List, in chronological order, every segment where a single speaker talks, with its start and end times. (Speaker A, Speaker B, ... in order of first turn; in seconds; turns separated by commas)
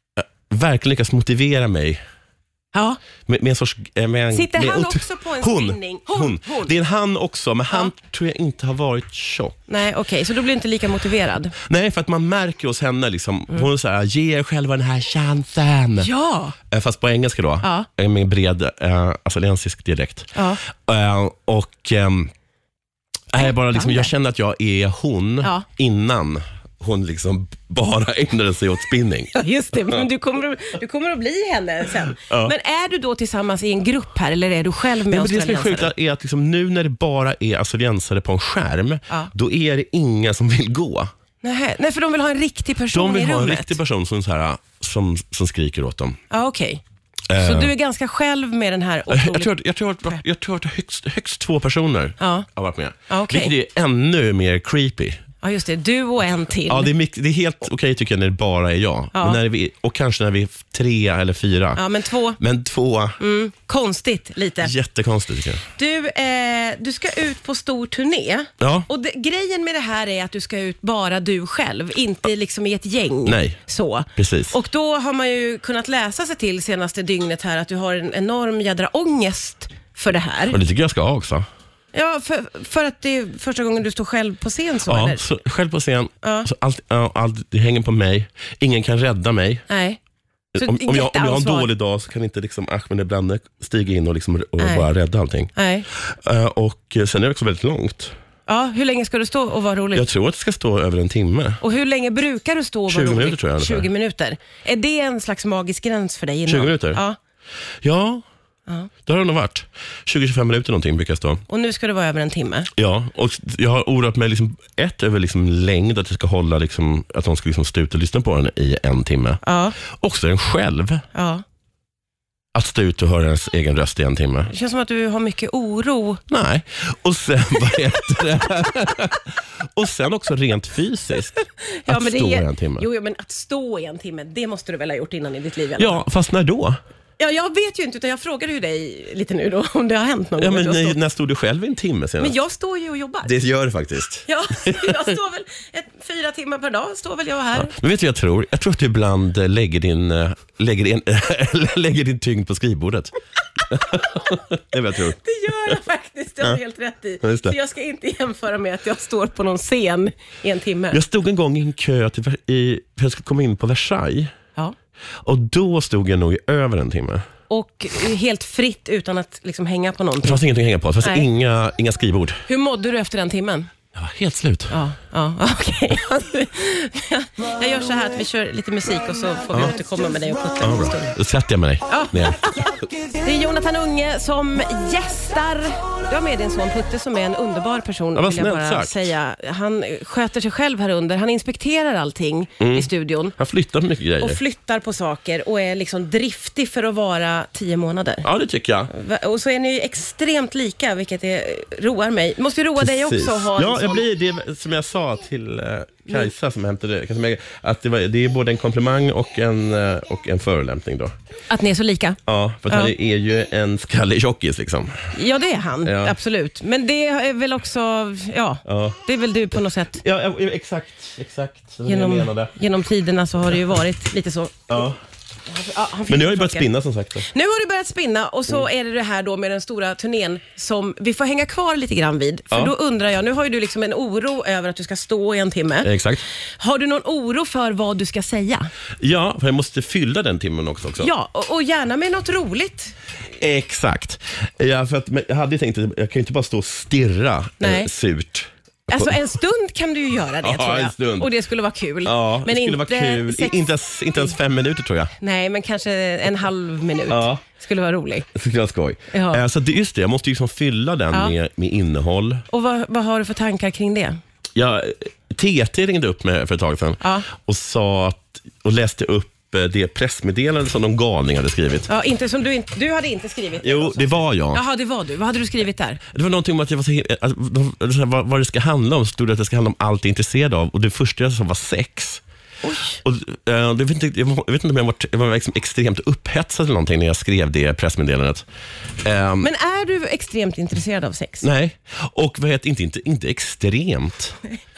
Speaker A: 0.2-2.0, Speaker B: 2.7-3.0, Speaker A: 3.3-9.6, Speaker B: 4.3-6.7, Speaker B: 9.7-11.5, Speaker A: 11.6-16.1, Speaker B: 16.0-16.6, Speaker A: 16.7-22.3, Speaker B: 17.6-17.9, Speaker B: 20.3-20.6, Speaker A: 23.3-29.3, Speaker B: 23.3-24.1, Speaker B: 29.3-35.9, Speaker A: 32.3-32.5, Speaker A: 35.1-41.1, Speaker B: 41.4-43.8, Speaker A: 42.9-46.2, Speaker B: 46.3-46.8, Speaker A: 47.3-47.7, Speaker B: 47.4-49.5, Speaker A: 49.1-55.2, Speaker B: 52.2-52.5, Speaker B: 53.1-53.5, Speaker B: 55.4-56.9, Speaker A: 56.7-61.8, Speaker B: 59.1-59.4, Speaker B: 61.7-62.4, Speaker A: 62.4-63.2, Speaker B: 63.2-64.7, Speaker A: 64.6-65.6, Speaker B: 65.8-80.6, Speaker A: 68.6-68.9, Speaker A: 73.2-73.6, Speaker A: 74.2-74.5, Speaker A: 80.5-81.5, Speaker B: 81.9-85.2, Speaker A: 84.8-89.7, Speaker B: 86.2-86.5, Speaker B: 89.7-90.0, Speaker A: 90.5-98.1, Speaker B: 90.6-91.7, Speaker B: 94.6-94.9, Speaker B: 95.5-95.9, Speaker B: 98.5-100.0, Speaker A: 99.9-101.6, Speaker B: 101.6-107.2, Speaker A: 102.9-103.9, Speaker A: 106.5-107.0, Speaker A: 107.8-108.2, Speaker A: 109.0-111.4, Speaker B: 111.5-112.7, Speaker A: 112.8-121.0, Speaker B: 119.4-119.8, Speaker B: 121.1-121.4, Speaker A: 122.5-124.5, Speaker B: 124.5-126.2, Speaker A: 126.3-132.9, Speaker B: 131.4-136.0, Speaker A: 135.8-136.8, Speaker B: 137.2-140.9, Speaker A: 140.4-142.3, Speaker B: 142.2-143.3, Speaker A: 143.2-145.0, Speaker B: 144.2-147.7, Speaker A: 147.6-153.1, Speaker A: 153.7-155.2, Speaker B: 155.0-161.0, Speaker A: 157.2-157.6, Speaker A: 160.9-164.3, Speaker A: 165.2-167.2, Speaker B: 167.5-170.4, Speaker A: 170.2-172.4, Speaker B: 172.5-173.7, Speaker A: 173.9-174.8, Speaker B: 174.7-181.1, Speaker A: 180.6-182.7, Speaker B: 181.9-193.3, Speaker A: 188.1-189.1, Speaker A: 192.6-194.4, Speaker B: 194.2-198.3, Speaker A: 198.2-198.9, Speaker B: 198.9-204.0, Speaker A: 202.8-211.1, Speaker B: 211.5-212.2, Speaker A: 212.3-215.1, Speaker B: 215.1-220.0, Speaker A: 215.8-216.2, Speaker A: 218.6-219.0, Speaker A: 219.9-222.5, Speaker B: 221.9-224.8, Speaker A: 224.7-224.9, Speaker B: 225.5-226.7, Speaker A: 226.1-227.3, Speaker B: 227.2-235.9, Speaker A: 235.8-236.2, Speaker B: 236.6-238.7, Speaker A: 239.0-241.1, Speaker B: 241.0-242.9, Speaker A: 243.4-249.2, Speaker B: 247.6-247.9, Speaker B: 248.9-254.3, Speaker A: 250.4-251.3, Speaker A: 252.0-255.1, Speaker B: 255.2-258.3, Speaker A: 257.1-257.4, Speaker A: 258.3-262.4, Speaker B: 259.1-259.4, Speaker B: 262.5-264.2, Speaker A: 264.6-271.9, Speaker B: 267.0-267.3, Speaker B: 271.9-276.0, Speaker A: 273.6-274.6, Speaker A: 276.1-282.2, Speaker B: 282.6-283.0, Speaker A: 283.0-288.4, Speaker A: 289.0-289.5, Speaker B: 289.4-291.5, Speaker A: 291.4-294.4